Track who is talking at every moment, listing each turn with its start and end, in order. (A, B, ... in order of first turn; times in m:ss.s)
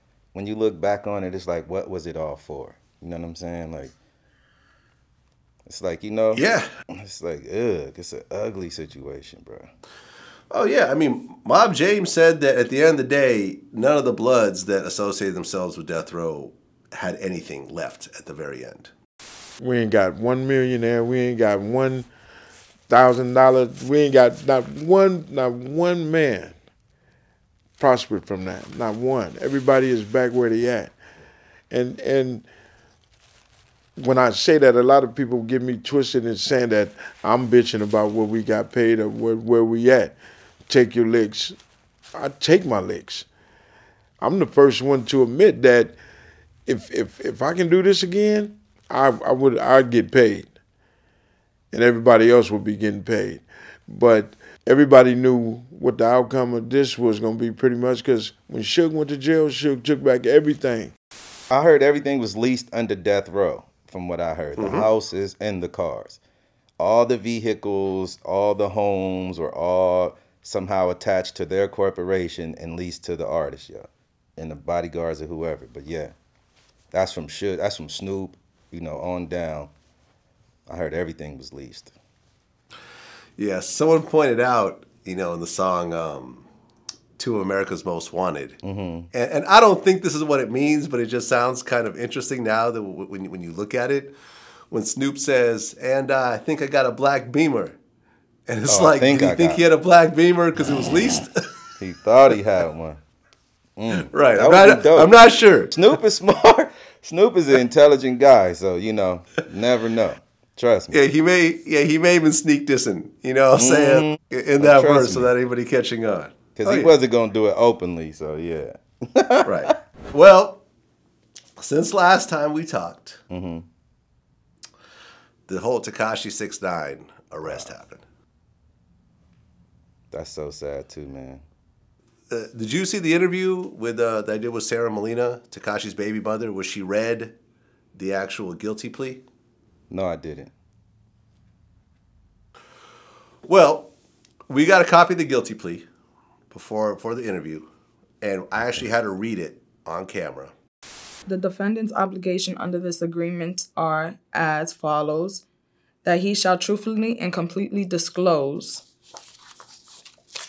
0:00.3-0:03.9 A
0:05.6-0:09.7 A
0:06.3-0:06.7 B
0:10.5-0:18.9 B
0:19.6-0:22.1 C
0:22.9-0:26.6 C
0:27.8-0:30.9 C
0:31.7-0:32.4 C
0:34.0-0:40.2 C
0:40.7-0:41.6 C
0:42.1-0:43.3 C
0:44.2-0:46.0 C
0:46.6-0:50.5 C
0:51.7-1:00.9 C
1:01.5-1:06.2 A
1:04.6-1:04.9 B
1:06.8-1:16.1 A
1:16.9-1:19.7 A
1:20.7-1:21.9 A
1:23.4-1:26.4 B
1:27.2-1:28.6 B
1:28.6-1:29.1 A
1:29.1-1:34.1 B
1:34.7-1:37.8 B
1:38.5-1:41.3 B
1:38.7-1:39.6 A
1:41.8-1:43.0 A
1:43.8-1:45.1 A
1:43.9-1:45.8 B
1:45.7-1:51.0 A
1:50.9-1:56.9 B
1:53.6-1:55.3 A
1:56.6-1:59.8 A
1:59.4-2:00.6 B
2:01.6-2:03.2 B
2:03.3-2:03.6 A
2:05.5-2:08.0 B
2:10.1-2:11.4 A
2:12.3-2:17.3 B
2:17.9-2:19.2 B
2:19.9-2:20.5 A
2:23.4-2:23.9 B
2:24.5-2:25.8 B
2:26.5-2:27.7 B
2:28.2-2:30.5 B
2:31.2-2:35.4 D
2:36.0-2:38.8 D